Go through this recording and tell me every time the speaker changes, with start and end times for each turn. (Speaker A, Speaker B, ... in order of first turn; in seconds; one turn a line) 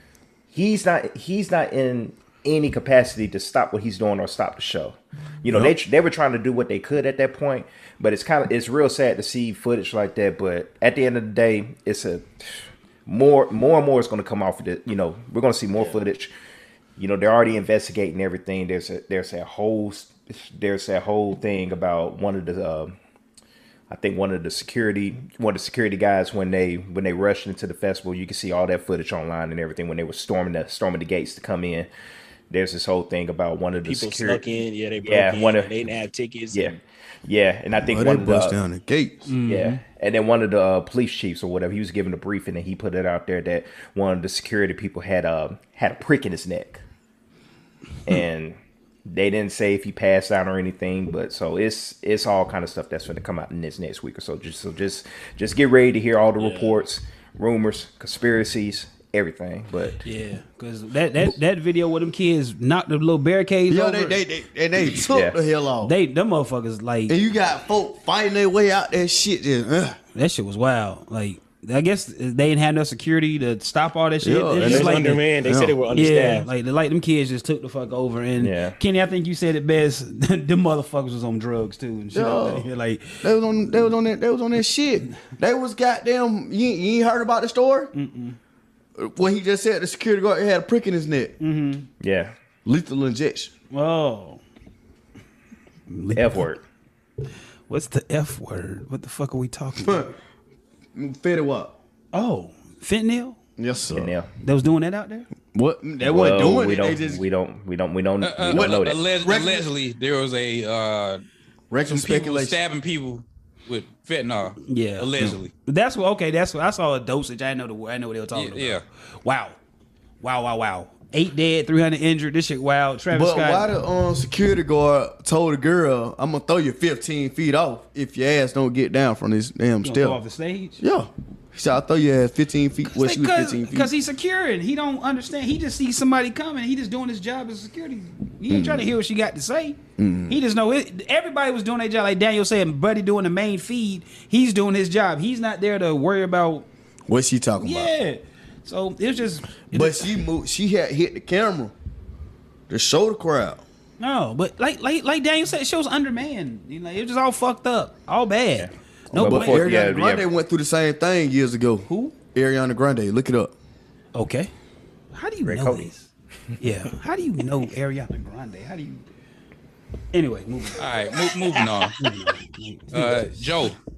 Speaker A: 0.5-16.3
Speaker A: 17.0-22.9
Speaker A: 23.9-31.9
Speaker A: 32.5-35.7
Speaker B: 33.8-36.8
Speaker A: 36.5-38.6
Speaker C: 37.8-39.3
Speaker D: 39.2-39.8
Speaker A: 39.4-46.8
Speaker A: 48.1-60.0
Speaker B: 56.4-56.8
Speaker D: 60.0-64.2
Speaker C: 63.7-65.9
Speaker A: 65.0-65.4
Speaker D: 65.8-67.1
Speaker C: 67.1-70.0
Speaker D: 70.2-75.2
Speaker C: 74.2-75.8
Speaker B: 74.6-76.5
Speaker D: 75.9-83.2
Speaker A: 78.4-78.8
Speaker C: 82.1-82.7
Speaker C: 83.2-87.9
Speaker D: 87.9-88.4
Speaker C: 89.0-91.4
Speaker D: 91.4-91.9
Speaker A: 92.0-92.3
Speaker C: 92.6-93.5
Speaker D: 93.7-94.4
Speaker D: 95.9-96.5
Speaker A: 96.1-96.6
Speaker D: 97.7-100.1
Speaker C: 99.8-100.1
Speaker C: 100.9-101.8
Speaker D: 102.1-103.4
Speaker C: 103.6-104.1
Speaker A: 103.9-104.3
Speaker D: 104.4-105.3
Speaker C: 105.5-107.2
Speaker A: 106.0-109.0
Speaker E: 108.2-111.2
Speaker C: 108.5-109.7
Speaker C: 111.7-112.6
Speaker E: 111.8-115.5
Speaker D: 114.6-119.6
Speaker E: 118.3-118.8
Speaker D: 120.2-123.7
Speaker C: 123.1-130.2
Speaker D: 129.8-130.8
Speaker C: 130.8-133.9
Speaker D: 132.9-146.7
Speaker C: 138.5-138.9
Speaker C: 140.0-140.4
Speaker C: 147.1-147.9
Speaker D: 147.6-150.1
Speaker C: 149.7-151.7
Speaker C: 152.7-153.6
Speaker D: 154.0-159.7
Speaker A: 158.6-160.3
Speaker C: 159.1-163.5
Speaker D: 161.9-162.2
Speaker D: 164.1-164.5
Speaker D: 165.1-166.1
Speaker A: 165.4-165.9
Speaker D: 166.6-169.0
Speaker D: 170.1-170.8
Speaker E: 170.8-172.0
Speaker D: 171.8-173.5
Speaker E: 172.9-173.8